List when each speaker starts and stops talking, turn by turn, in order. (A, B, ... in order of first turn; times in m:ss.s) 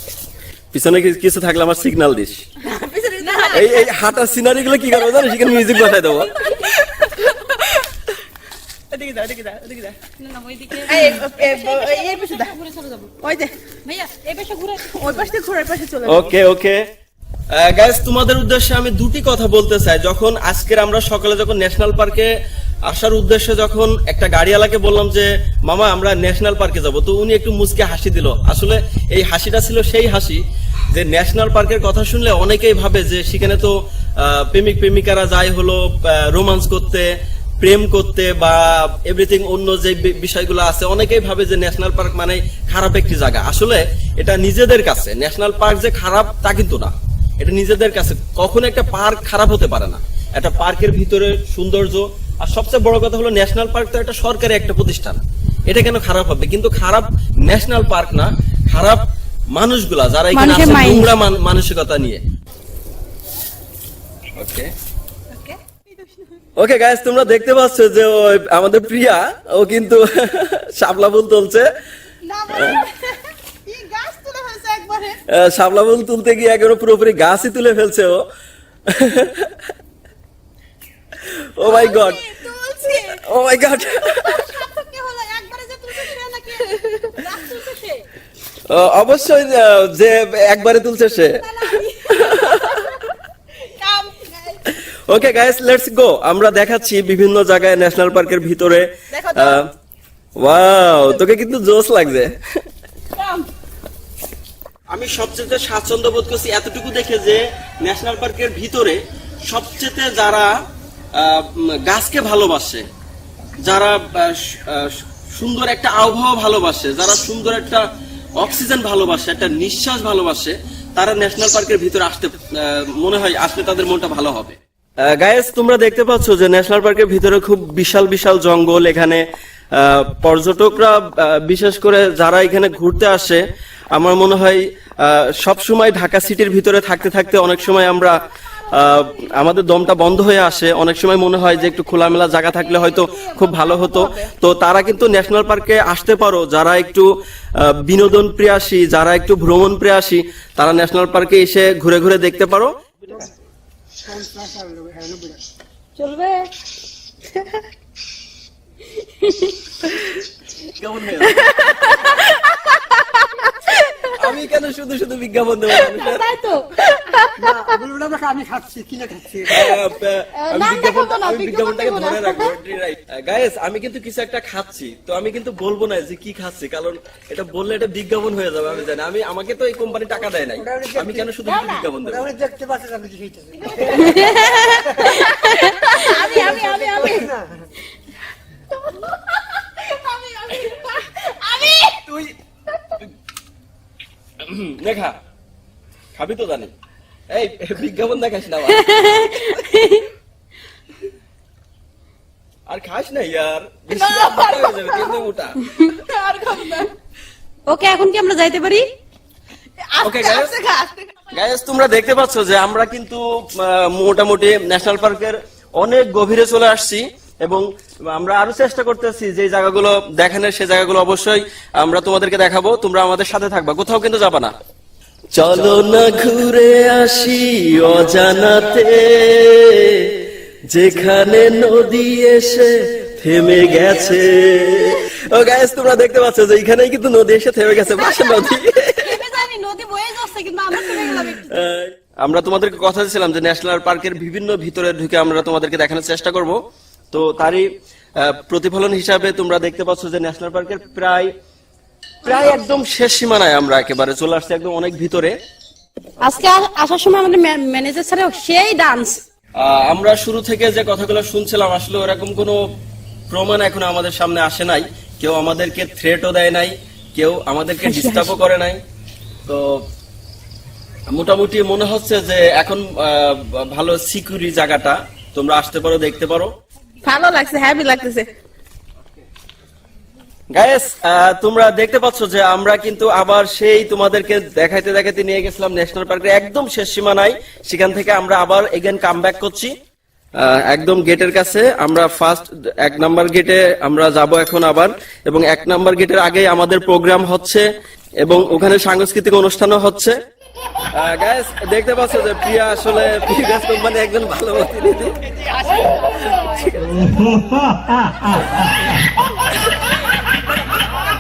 0:00.7-0:02.4 A
0:02.6-0:03.7 B
0:03.2-0:03.9 C
0:03.5-0:06.6 A
0:06.4-0:07.8 B
0:08.9-0:10.0 B
0:10.2-0:13.1 C
0:10.8-0:12.5 B
0:13.2-0:13.5 B
0:13.8-0:15.2 C
0:14.8-0:16.3 B
0:16.1-0:16.8 A
0:17.5-0:22.3 A
0:22.9-0:37.1 A
0:37.6-1:02.2 A
1:00.3-1:01.1 C
1:04.4-1:04.7 A
1:05.3-1:06.3 B
1:06.6-1:11.7 A
1:12.3-1:13.1 B
1:12.5-1:12.8 A
1:13.7-1:15.2 B
1:15.3-1:18.2 A
1:18.9-1:19.7 A
1:21.2-1:22.2 A
1:21.6-1:23.2 B
1:23.1-1:24.4 A
1:24.1-1:27.8 B
1:24.6-1:27.9 C
1:28.7-1:33.0 A
1:31.6-1:32.5 C
1:31.8-1:32.9 B
1:33.8-1:34.6 B
1:34.7-1:39.7 A
1:39.1-1:39.6 B
1:40.4-1:42.3 A
1:43.2-1:43.4 B
1:44.9-1:50.5 A
1:51.2-1:52.8 A
1:53.6-1:57.8 A
1:58.4-2:09.2 A
2:09.7-2:13.4 A
2:14.0-2:18.2 A
2:18.7-2:33.3 A
2:22.6-2:24.3 B
2:34.0-2:35.4 D
2:36.0-2:36.5 C
2:37.3-2:37.7 C
2:38.9-2:40.2 C
2:40.7-2:41.5 A
2:41.2-2:44.4 C
2:44.1-2:46.3 A
2:45.7-2:47.6 C
2:47.4-2:49.8 D
2:49.5-3:02.3 A
2:50.4-2:52.5 C
3:00.5-3:01.4 D
3:01.4-3:01.9 B
3:02.0-3:04.2 D
3:03.6-3:07.3 B
3:03.8-3:07.3 C
3:04.8-3:05.2 D
3:06.2-3:07.6 D
3:08.8-3:12.0 B
3:12.0-3:12.3 A
3:14.4-3:15.2 A
3:16.2-3:16.7 A
3:17.3-3:19.5 A
3:18.7-3:20.1 C
3:22.7-3:25.6 A
3:23.9-3:25.2 B
3:25.6-3:25.9 C
3:25.8-3:26.9 B
3:27.7-3:28.8 C
3:29.9-3:31.4 B
3:30.0-3:30.5 A
3:31.3-3:44.5 A
3:45.3-3:59.2 A
3:57.8-4:01.6 C
4:00.8-4:06.6 A
4:07.1-4:07.7 A
4:08.2-4:11.3 A
4:12.2-4:15.3 A
4:16.2-4:19.2 C
4:19.6-4:22.6 A
4:23.3-4:28.8 A
4:27.8-4:28.4 C
4:31.1-4:36.5 A
4:37.0-4:38.3 B
4:40.5-4:49.7 A
4:50.4-4:57.6 A
4:58.2-5:00.1 A
5:01.0-5:05.2 A
5:06.0-5:07.3 A